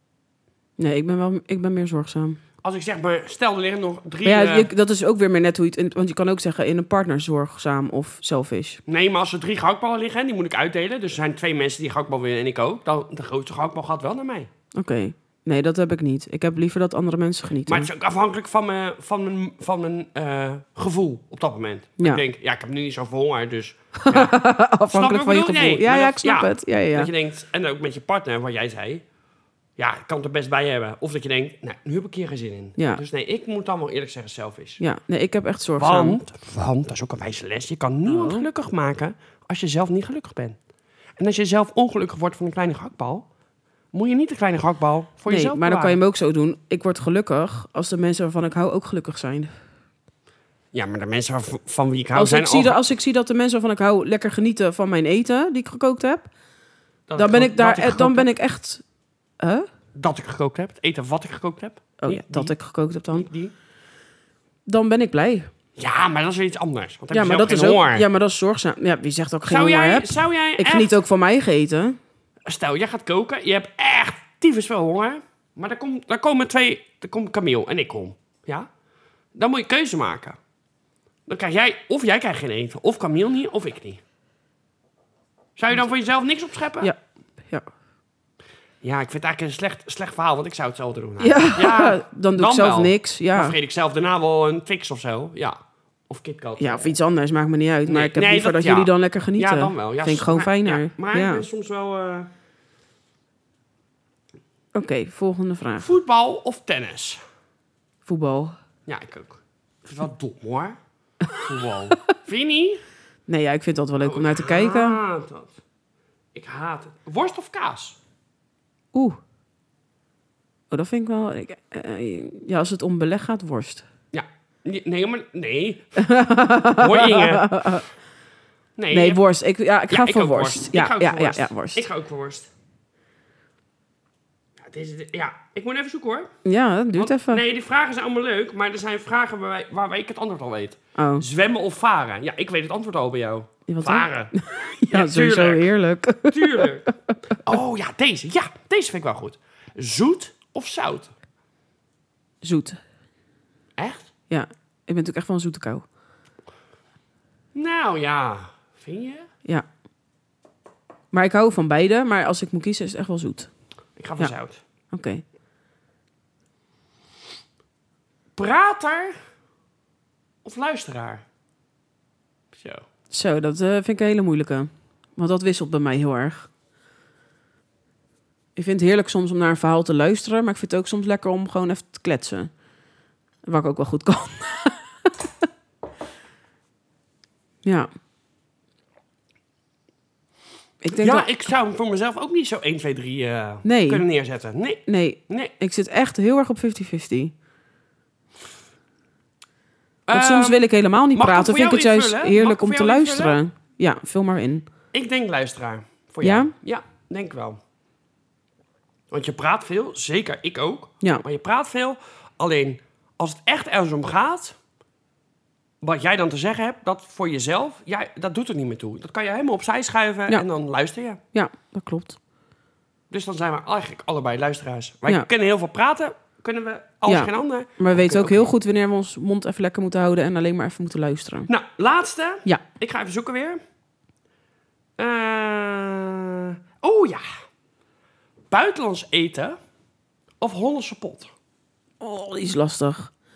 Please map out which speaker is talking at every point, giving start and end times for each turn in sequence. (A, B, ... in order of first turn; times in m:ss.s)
0:00.8-0:02.4 A
0:02.6-0:04.7 B
0:04.2-0:08.8 A
0:08.9-0:14.5 B
0:14.7-0:17.9 A
0:17.7-0:24.4 B
0:24.0-0:27.1 A
0:24.9-0:29.0 B
0:29.8-0:34.8 B
0:32.8-0:33.0 A
0:34.8-0:36.2 A
0:35.8-0:40.6 B
0:38.0-0:38.4 A
0:41.2-0:43.3 B
0:43.9-0:46.0 B
0:45.3-0:49.5 A
0:50.7-0:52.8 B
0:52.1-0:56.3 A
0:57.1-0:58.3 B
0:57.2-0:58.8 A
0:59.4-0:59.6 A
0:59.9-1:02.5 B
1:02.0-1:03.3 A
1:03.1-1:03.5 B
1:04.7-1:05.5 A
1:05.8-1:08.0 B
1:07.1-1:12.0 A
1:09.4-1:11.0 B
1:12.4-1:18.7 B
1:19.3-1:20.4 B
1:21.3-1:24.0 B
1:25.6-1:26.9 B
1:28.8-1:35.6 B
1:31.2-1:33.5 A
1:36.1-1:36.9 B
1:36.6-1:41.4 A
1:37.8-1:42.3 B
1:44.7-1:45.9 A
1:45.8-1:47.2 B
1:48.0-1:48.5 A
1:48.8-1:50.8 B
1:51.3-1:52.8 B
1:53.3-1:55.0 A
1:54.0-1:55.6 B
1:56.3-1:58.0 B
1:58.9-1:59.2 A
2:00.7-2:03.8 A
2:04.1-2:05.9 B
2:06.0-2:07.9 A
2:06.8-2:07.7 B
2:08.8-2:09.2 B
2:08.9-2:11.8 A
2:09.9-2:12.5 B
2:14.6-2:16.3 B
2:16.4-2:17.4 A
2:16.9-2:24.3 B
2:21.0-2:21.2 A
2:23.7-2:26.9 A
2:24.9-2:25.7 B
2:26.3-2:26.8 B
2:27.4-2:31.1 B
2:32.4-2:32.8 A
2:33.8-2:34.1 B
2:34.3-2:35.8 A
2:37.5-2:39.3 B
2:41.1-2:43.5 A
2:44.0-2:44.6 B
2:44.9-2:45.2 A
2:48.3-2:49.2 B
2:50.4-2:51.2 B
2:52.5-2:52.8 B
2:53.1-2:56.5 A
2:58.6-3:02.5 A
3:03.4-3:05.2 A
3:10.8-3:11.3 A
3:11.0-3:15.5 B
3:13.6-3:14.0 A
3:14.9-3:17.3 A
3:20.0-3:20.6 B
3:20.1-3:24.7 A
3:21.1-3:23.4 B
3:24.9-3:27.6 B
3:26.2-3:26.5 A
3:29.1-3:34.6 B
3:35.8-3:41.2 B
3:41.3-3:42.2 A
3:43.1-3:48.5 B
3:47.0-3:51.5 A
3:51.5-3:53.6 B
3:55.0-3:57.2 B
3:58.5-3:59.6 B
4:00.4-4:01.3 B
4:02.0-4:03.1 A